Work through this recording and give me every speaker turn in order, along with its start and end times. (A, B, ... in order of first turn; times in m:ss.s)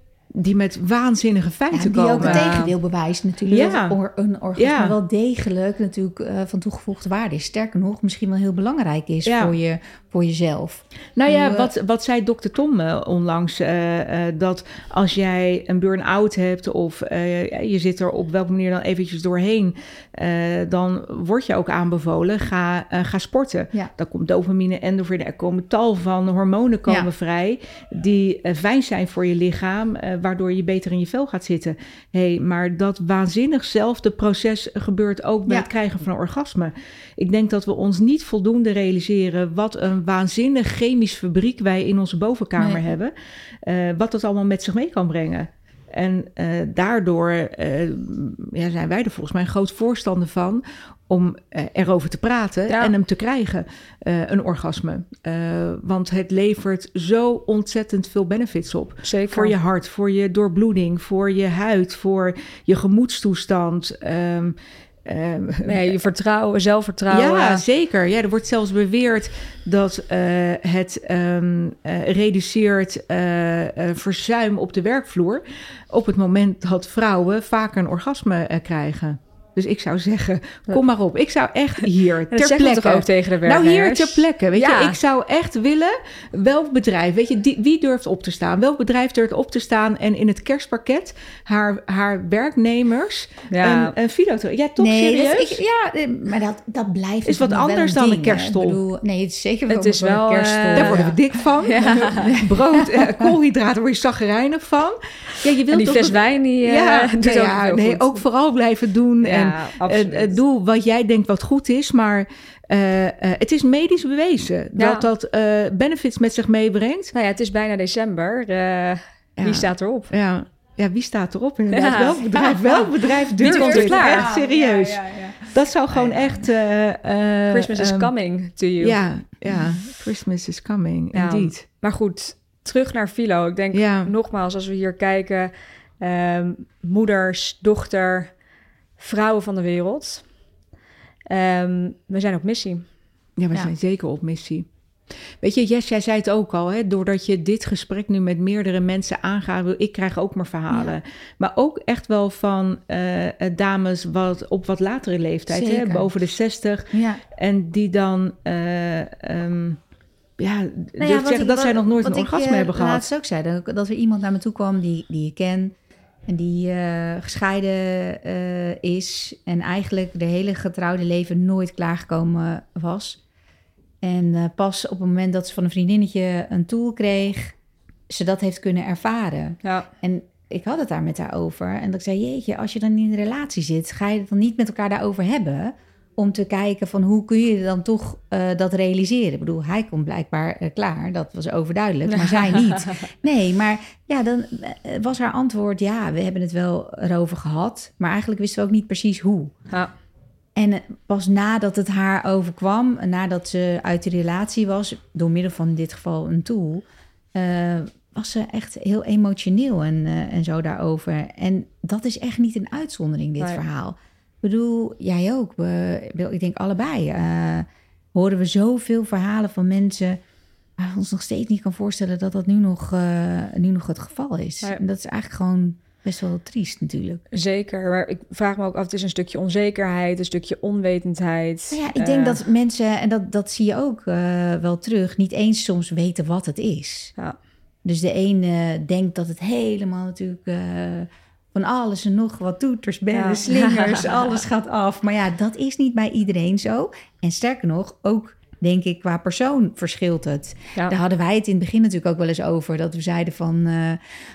0:00.3-0:02.6 A
0:01.7-0:11.7 B
0:02.2-0:02.7 C
0:03.5-0:04.0 A
0:04.6-0:05.0 A
0:09.2-0:09.5 A
0:11.2-1:06.0 A
0:42.6-0:42.9 B
0:59.0-0:59.5 C
1:05.6-1:07.6 C
1:07.1-1:35.6 A
1:22.3-1:25.0 C
1:33.5-1:33.9 C
1:34.8-1:41.2 B
1:37.2-1:38.8 A
1:39.7-1:42.4 C
1:40.7-1:57.1 A
1:41.9-1:43.2 B
1:45.7-1:48.2 C
1:49.2-1:50.4 C
1:54.8-1:55.1 C
1:57.1-2:00.1 C
1:59.4-2:08.1 A
2:01.7-2:02.8 C
2:02.5-2:02.8 B
2:03.4-2:04.4 C
2:03.4-2:06.3 B
2:07.5-2:09.0 C
2:08.8-2:11.6 A
2:11.1-2:18.4 C
2:13.7-2:14.1 A
2:19.0-2:20.3 C
2:21.3-2:22.9 C
2:23.4-2:24.7 A
2:25.4-2:39.8 A
2:35.5-2:36.1 B
2:36.9-2:37.2 B
2:40.4-2:43.1 A
2:41.0-2:45.7 B
2:46.3-2:53.2 B
2:54.0-2:57.5 B
2:58.1-3:19.5 B
3:12.1-3:12.9 C
3:20.6-3:26.8 B
3:27.3-3:40.2 B
3:40.8-3:47.2 B
3:47.3-3:52.4 C
3:51.7-3:57.1 B
3:57.8-4:14.0 B
4:03.1-4:04.3 C